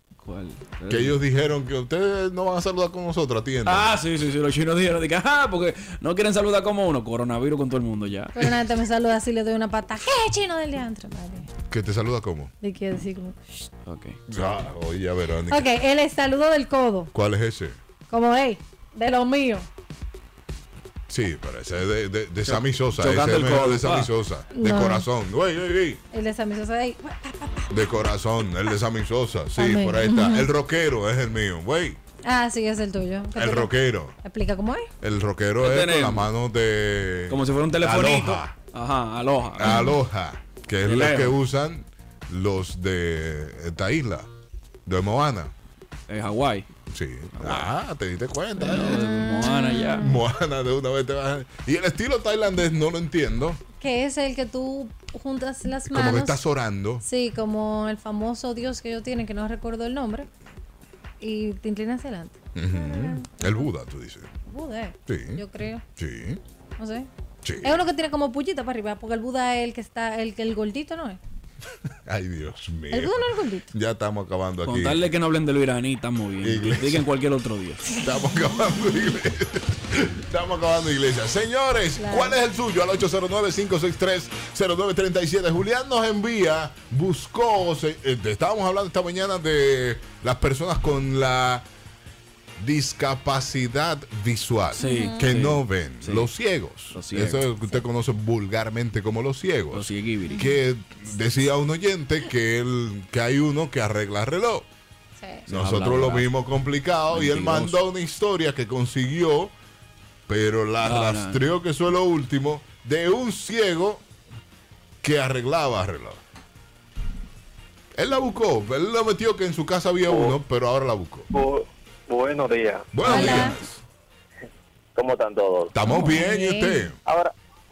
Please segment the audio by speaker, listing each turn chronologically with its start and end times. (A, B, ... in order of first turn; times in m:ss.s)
0:00.2-0:01.2 A
0:00.9-0:03.9 B
0:03.7-0:08.4 A
0:08.4-0:11.5 C
0:11.7-0:12.5 B
0:12.6-0:13.4 C
0:13.9-0:14.2 A
0:14.3-0:15.7 B
0:15.5-0:17.1 C
0:17.1-0:17.8 B
0:18.1-0:19.7 C
0:21.1-0:26.0 B
0:22.5-0:24.1 A
0:24.5-0:25.1 C
0:26.1-0:27.7 C
0:27.7-0:32.0 B
0:29.6-0:30.5 C
0:32.2-0:33.7 C
0:33.4-0:34.1 B
0:34.2-0:34.9 C
0:35.0-0:38.5 B
0:35.6-0:36.3 A
0:37.3-0:39.9 A
0:39.6-0:44.3 B
0:39.6-0:39.9 C
0:40.8-0:41.4 A
0:44.9-0:45.5 B
0:46.1-0:46.7 A
0:46.9-0:49.0 B
0:47.4-0:47.7 A
0:48.6-0:50.1 A
0:48.8-0:50.1 C
0:50.0-0:53.6 B
0:53.8-0:56.4 C
0:55.9-0:57.0 B
0:57.0-1:00.3 C
1:01.2-1:03.7 C
1:02.6-1:04.3 B
1:04.5-1:05.8 C
1:05.1-1:05.4 B
1:06.0-1:06.4 B
1:06.8-1:07.1 C
1:07.4-1:07.8 B
1:07.6-1:11.2 C
1:12.1-1:15.0 B
1:12.9-1:13.7 C
1:14.6-1:17.9 A
1:16.4-1:17.0 B
1:18.0-1:31.6 B
1:22.0-1:22.4 C
1:32.6-1:44.7 B
1:34.8-1:36.3 A
1:34.8-1:35.2 C
1:36.9-1:37.5 A
1:39.7-1:40.5 A
1:45.2-1:45.4 C
1:45.5-1:46.3 A
1:45.5-1:49.5 B
1:47.1-1:47.8 A
1:50.3-1:54.0 B
1:50.8-1:51.4 A
1:55.0-1:56.2 B
1:58.0-2:01.3 B
2:01.3-2:02.9 D
2:02.9-2:03.8 B
2:03.0-2:03.6 C
2:05.0-2:05.8 D
2:05.7-2:07.0 B
2:05.8-2:06.9 C
2:07.0-2:07.3 D